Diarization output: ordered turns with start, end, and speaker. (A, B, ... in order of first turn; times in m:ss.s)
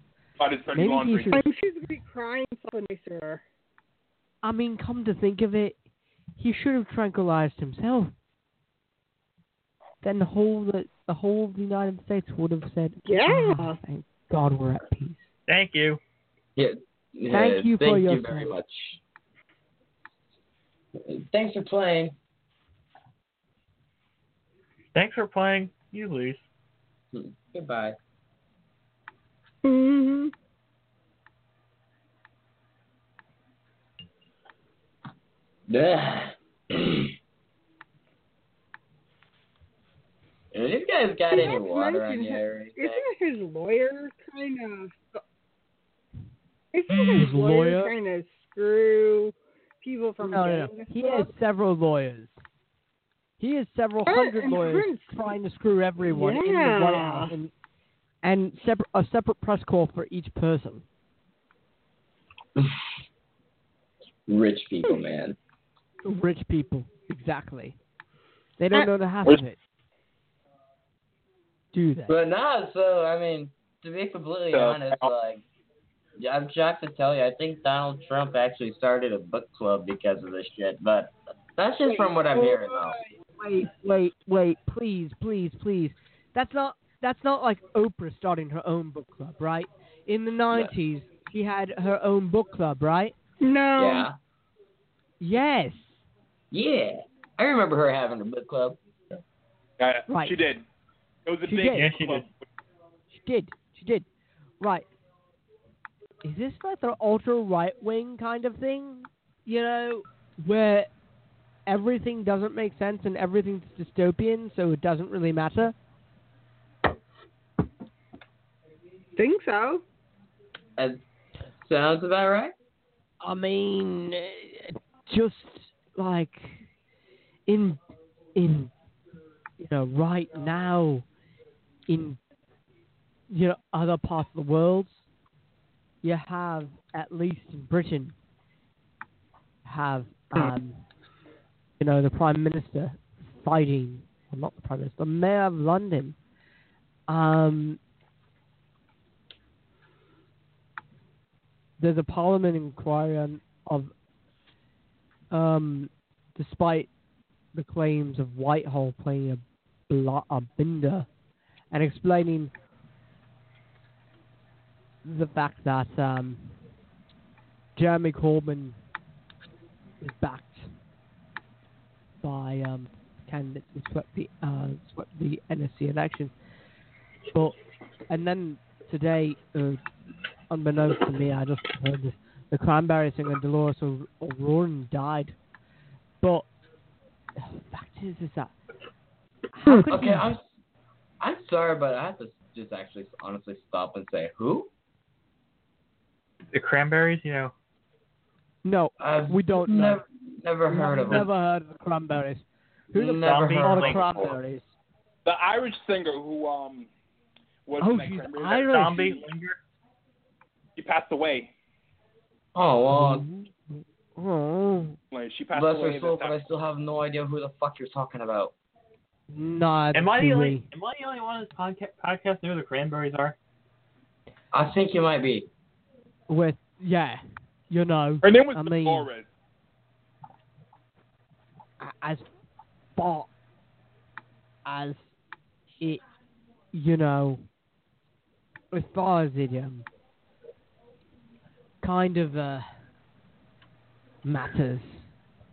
0:00.4-0:01.4 A
0:00.7-0:01.5 B
0:01.3-0:03.4 C
0:04.4-0:05.8 B
0:06.4-0:08.1 B
0:10.0-0:15.3 B
0:13.0-0:13.8 C
0:15.5-0:16.0 D
0:16.6-0:19.0 E
0:17.3-0:18.5 B
0:21.0-0:22.2 E
0:24.9-0:26.4 D
0:27.1-0:28.0 E
0:29.6-0:30.3 C
0:35.7-0:37.1 E
0:40.5-0:43.0 E
0:41.3-0:45.2 C
0:46.7-0:51.3 C
0:46.9-0:47.9 B
0:50.2-0:52.4 B
0:53.4-0:57.5 B
0:54.1-0:55.2 C
0:56.1-0:57.3 C
0:58.2-1:00.8 B
1:04.3-1:05.4 E
1:06.0-1:07.8 B
1:08.6-1:09.6 B
1:11.7-1:12.1 B
1:12.1-1:15.4 E
1:14.5-1:15.1 A
1:16.2-1:23.0 E
1:21.8-1:23.0 C
1:23.4-1:33.1 B
1:33.4-1:34.1 C
1:33.8-1:34.2 E
1:35.2-1:36.0 B
1:36.5-1:38.8 E
1:39.8-1:40.6 A
1:40.1-1:40.4 B
1:41.3-1:42.3 A
1:41.4-1:42.0 B
1:41.7-1:42.2 D
1:43.1-1:44.1 B
1:44.6-1:44.9 B
1:46.2-1:50.9 B
1:51.7-1:55.8 B
1:59.2-1:59.8 C
2:00.8-2:01.0 E
2:01.6-2:02.5 E
2:03.2-2:06.7 B
2:07.5-2:07.8 B
2:08.4-2:08.7 B
2:09.6-2:11.1 B
2:11.9-2:12.2 B
2:13.3-2:15.1 B
2:16.0-2:18.2 B
2:19.6-2:20.8 B
2:21.8-2:26.2 B
2:27.1-2:27.8 B
2:31.8-2:33.9 B
2:35.3-2:36.9 B
2:37.5-2:41.1 B
2:41.7-2:42.5 B
2:45.0-2:46.6 B
2:47.8-2:48.8 B
2:50.0-2:50.7 B
2:52.2-2:56.3 B
2:58.1-2:59.8 B
3:00.5-3:05.4 B
3:06.2-3:06.5 B
3:07.4-3:08.5 B
3:09.5-3:10.3 B
3:09.9-3:10.5 E
3:11.2-3:14.7 E
3:16.5-3:17.5 D
3:18.6-3:20.0 B
3:19.0-3:21.3 E
3:20.7-3:24.7 B
3:22.9-3:24.3 E
3:23.2-3:24.2 D
3:25.2-3:26.9 A
3:27.7-3:29.1 A
3:27.8-3:29.2 B
3:28.7-3:29.6 D
3:30.8-3:31.5 A
3:32.6-3:33.2 E
3:32.9-3:35.0 B
3:35.1-3:36.4 A
3:35.5-3:38.5 E
3:39.3-3:40.7 B
3:39.9-3:43.4 D
3:44.5-3:45.5 E
3:46.3-3:49.1 B
3:48.2-3:49.3 A
3:51.8-3:52.3 B
3:53.0-3:53.3 B
3:54.7-3:55.1 B
3:56.7-3:57.5 B
3:58.7-3:59.9 B
4:01.8-4:02.7 B
4:04.2-4:05.1 B